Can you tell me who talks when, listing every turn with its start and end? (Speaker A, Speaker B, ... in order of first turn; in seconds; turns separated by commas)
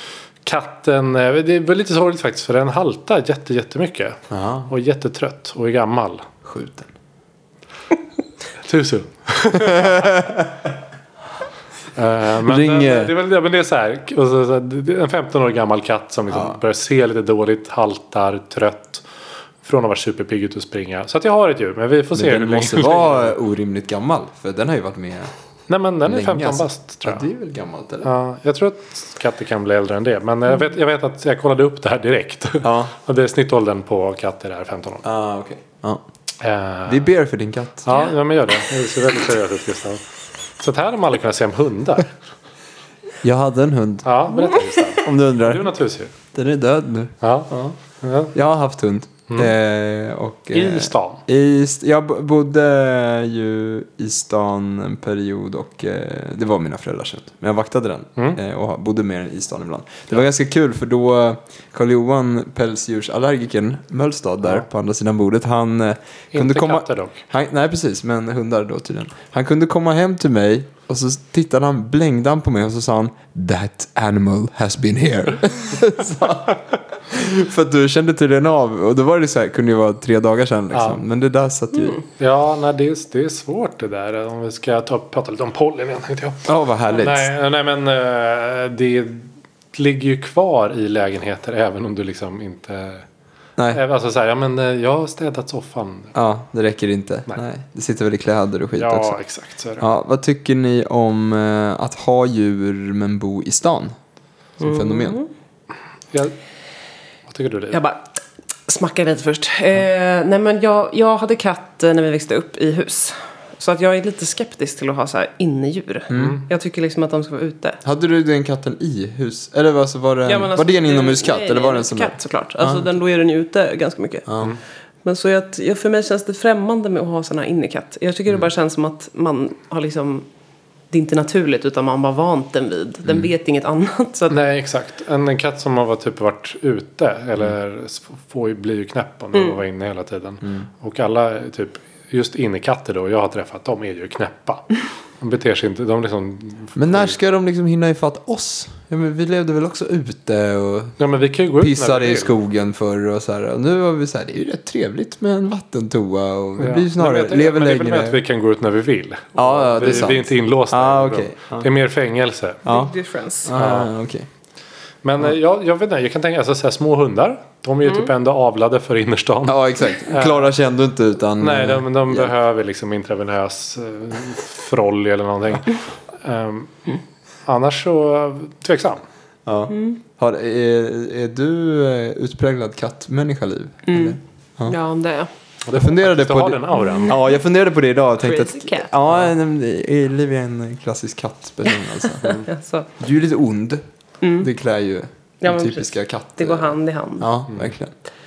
Speaker A: 0.4-6.3, Speaker B: 4.3-4.7, Speaker B: 6.4-6.9, Speaker A: 8.6-10.1, Speaker B: 9.5-10.5, Speaker A: 11.9-19.0, Speaker B: 12.4-13.1, Speaker B: 16.3-16.6, Speaker A: 19.6-23.4, Speaker B: 22.1-25.3, Speaker A: 25.7-27.2, Speaker B: 26.0-28.1, Speaker A: 28.0-35.0, Speaker B: 32.6-32.9, Speaker B: 35.0-36.0, Speaker A: 36.4-37.1, Speaker B: 36.9-37.9, Speaker A: 37.8-40.0, Speaker A: 40.6-42.1, Speaker B: 43.2-44.1, Speaker A: 44.0-46.1, Speaker B: 45.0-45.7, Speaker B: 46.3-47.7, Speaker A: 47.2-48.3, Speaker B: 48.3-82.0, Speaker A: 50.5-51.2, Speaker A: 66.3-67.2, Speaker A: 80.7-81.0, Speaker A: 82.2-93.0, Speaker B: 86.5-87.3, Speaker A: 93.7-96.1, Speaker B: 96.1-99.2, Speaker A: 98.7-99.9, Speaker B: 99.8-104.0, Speaker B: 104.6-105.2, Speaker C: 104.6-105.2, Speaker A: 107.3-107.8, Speaker C: 107.7-117.8, Speaker B: 116.1-116.4, Speaker A: 116.1-116.4, Speaker B: 117.8-122.8, Speaker C: 120.2-124.3, Speaker B: 124.3-124.5, Speaker C: 125.0-130.2, Speaker C: 130.9-134.3, Speaker B: 133.0-133.3, Speaker A: 134.3-144.7, Speaker C: 139.3-139.6, Speaker B: 140.4-140.7, Speaker A: 145.2-147.2, Speaker B: 146.8-151.0, Speaker A: 151.0-152.3, Speaker B: 151.6-158.2, Speaker A: 156.6-162.6, Speaker B: 159.3-161.7, Speaker B: 162.7-162.9, Speaker C: 162.7-163.5, Speaker B: 163.4-164.3, Speaker A: 163.6-163.9, Speaker A: 165.0-170.5, Speaker B: 169.5-172.3, Speaker A: 171.4-176.8, Speaker A: 177.4-179.0, Speaker B: 179.4-184.7, Speaker C: 183.9-185.3, Speaker A: 185.6-187.2, Speaker B: 185.7-192.4, Speaker C: 186.9-187.1, Speaker C: 188.2-188.9, Speaker C: 192.3-192.9, Speaker B: 193.0-193.8, Speaker C: 194.2-194.5, Speaker B: 194.4-197.9, Speaker C: 195.4-197.3